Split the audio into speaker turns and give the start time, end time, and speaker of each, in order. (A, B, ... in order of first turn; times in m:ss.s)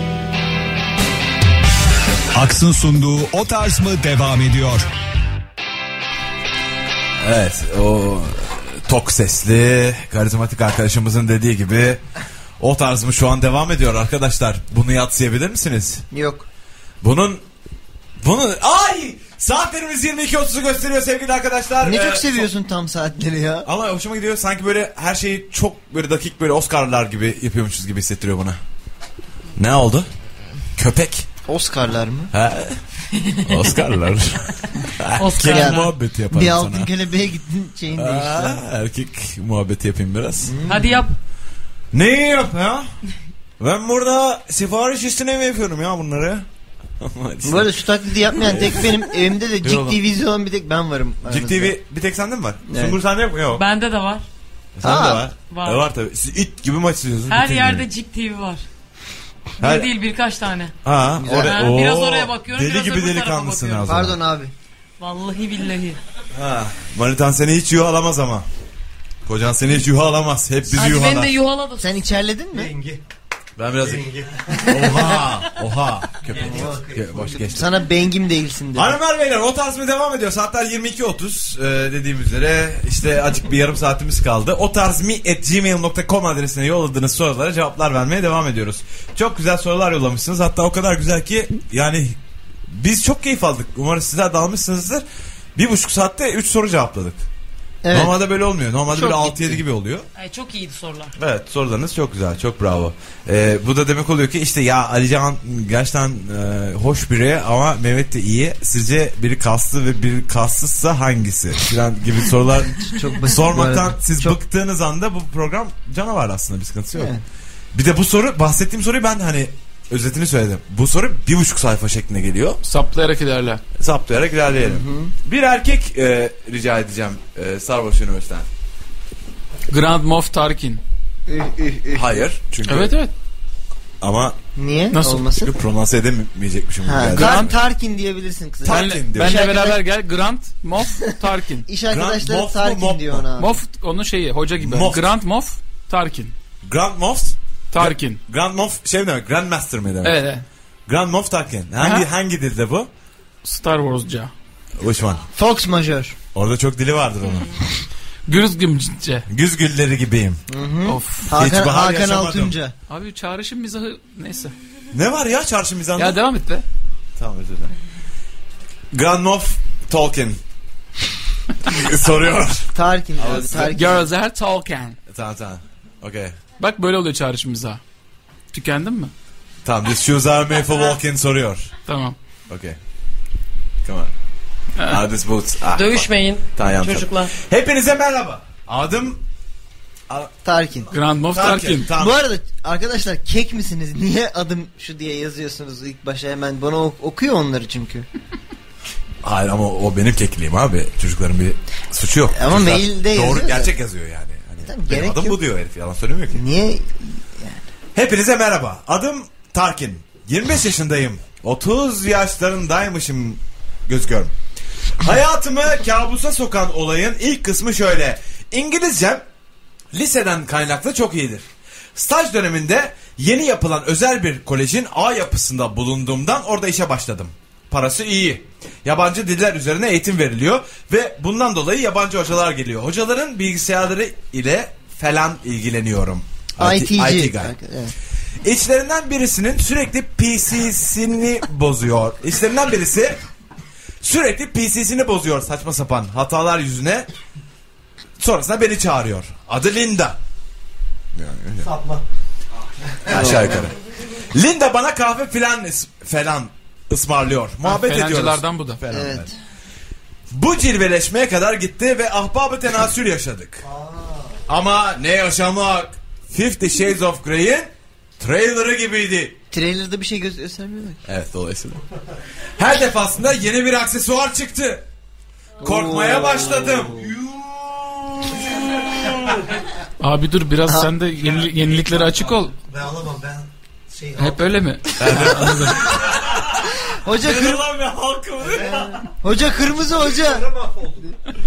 0:02.3-0:04.9 A
0:07.2-0:12.0 B
0:12.6-0:16.0 B
0:16.1-0:16.5 C
0:17.0-0:17.4 B
0:18.2-0:22.5 B
0:21.8-0:23.7 C
0:23.7-0:28.6 B
0:29.6-0:30.1 B
0:30.8-0:31.3 B
0:31.5-0:32.3 C
0:32.3-0:32.8 B
0:33.2-0:33.7 D
0:33.4-0:36.9 B
0:35.2-0:35.9 D
0:35.4-0:38.6 C
0:38.0-0:40.5 B
0:40.4-0:41.0 C
0:40.7-0:41.1 D
0:41.9-0:42.9 B
0:43.6-0:46.5 B
0:47.0-0:47.7 B
0:47.4-0:51.8 C
0:48.3-0:48.9 B
0:49.6-0:50.0 B
0:51.3-0:53.6 B
0:52.7-0:53.0 C
0:53.5-0:54.2 D
0:54.8-0:57.9 B
0:54.8-0:55.3 C
0:55.5-0:55.8 D
0:57.3-0:58.6 D
0:59.6-0:59.9 B
0:59.6-1:00.7 D
1:00.8-1:04.2 B
1:01.2-1:01.5 C
1:01.5-1:03.9 D
1:03.9-1:04.5 C
1:05.0-1:06.0 D
1:06.3-1:08.5 B
1:09.3-1:11.4 B
1:10.7-1:12.2 D
1:11.8-1:12.7 C
1:12.5-1:13.0 E
1:13.6-1:17.7 B
1:13.8-1:15.1 E
1:16.2-1:17.3 E
1:16.3-1:19.0 C
1:18.8-1:32.2 B
1:32.7-1:35.0 B
1:35.6-1:37.2 B
1:37.8-1:38.2 C
1:37.9-1:40.1 B
1:38.9-1:39.6 C
1:40.2-1:41.1 D
1:41.2-1:57.2 B
1:52.9-1:54.4 C
1:57.0-1:57.2 C
1:57.7-2:02.6 B
2:02.6-2:03.6 F
2:03.8-2:08.5 B
2:04.6-2:05.1 C
2:09.7-2:10.8 F
2:11.3-2:12.2 C
2:11.9-2:13.0 B
2:12.7-2:13.1 F
2:14.0-2:14.4 B
2:14.6-2:15.5 C
2:14.9-2:15.3 F
2:15.4-2:17.6 B
2:16.8-2:19.8 C
2:17.2-2:17.5 F
2:18.6-2:19.4 B
2:18.6-2:21.7 F
2:21.7-2:23.6 C
2:21.9-2:23.3 B
2:23.4-2:26.3 F
2:24.6-2:25.0 B
2:26.6-2:30.2 B
2:27.7-2:28.2 F
2:30.0-2:30.4 F
2:30.9-2:32.9 B
2:31.8-2:32.1 F
2:33.4-2:34.3 F
2:34.8-2:35.2 B
2:35.4-2:36.2 C
2:36.4-2:37.6 B
2:38.3-2:39.3 F
2:39.3-2:40.4 B
2:40.5-2:42.8 C
2:40.9-2:41.3 F
2:41.3-2:42.5 B
2:42.9-2:44.6 F
2:44.9-2:46.2 B
2:46.0-2:46.6 F
2:47.2-2:47.7 B
2:48.9-2:50.4 B
2:51.6-2:53.8 B
2:52.7-2:54.1 C
2:53.6-2:55.0 F
2:55.1-2:56.4 B
2:56.6-2:57.8 F
2:58.5-2:59.1 F
2:59.6-3:01.7 B
3:01.9-3:02.2 F
3:02.5-3:02.8 B
3:03.8-3:04.1 B
3:04.9-3:09.2 B
3:05.8-3:07.3 D
3:10.4-3:10.9 C
3:10.9-3:11.9 F
3:11.3-3:12.2 B
3:11.9-3:18.1 C
3:19.2-3:26.4 B
3:22.3-3:23.7 C
3:24.6-3:25.4 C
3:26.3-3:27.6 C
3:28.0-3:34.3 B
3:35.0-3:39.2 B
3:39.9-3:57.5 B
3:56.6-3:57.9 C
3:58.4-4:03.2 B
4:04.0-4:07.1 B
4:08.2-4:10.2 B
4:11.2-4:11.7 B
4:11.6-4:12.0 E
4:13.0-4:13.4 E
4:13.1-4:13.8 B
4:13.1-4:13.7 C
4:14.3-4:19.3 B
4:17.6-4:18.8 F
4:18.9-4:19.3 C
4:20.3-4:23.6 B
4:23.6-4:24.4 E
4:24.5-4:29.4 B
4:29.5-4:31.0 C
4:31.1-4:31.8 B
4:32.6-4:34.8 B
4:35.6-4:37.1 C
4:35.6-4:39.4 B
4:40.0-4:42.5 F
4:41.2-4:44.6 E
4:44.2-4:45.9 F
4:45.0-4:49.0 B
4:46.9-4:47.7 C
4:48.4-4:49.0 E
4:48.6-4:50.5 C
4:49.5-4:51.2 E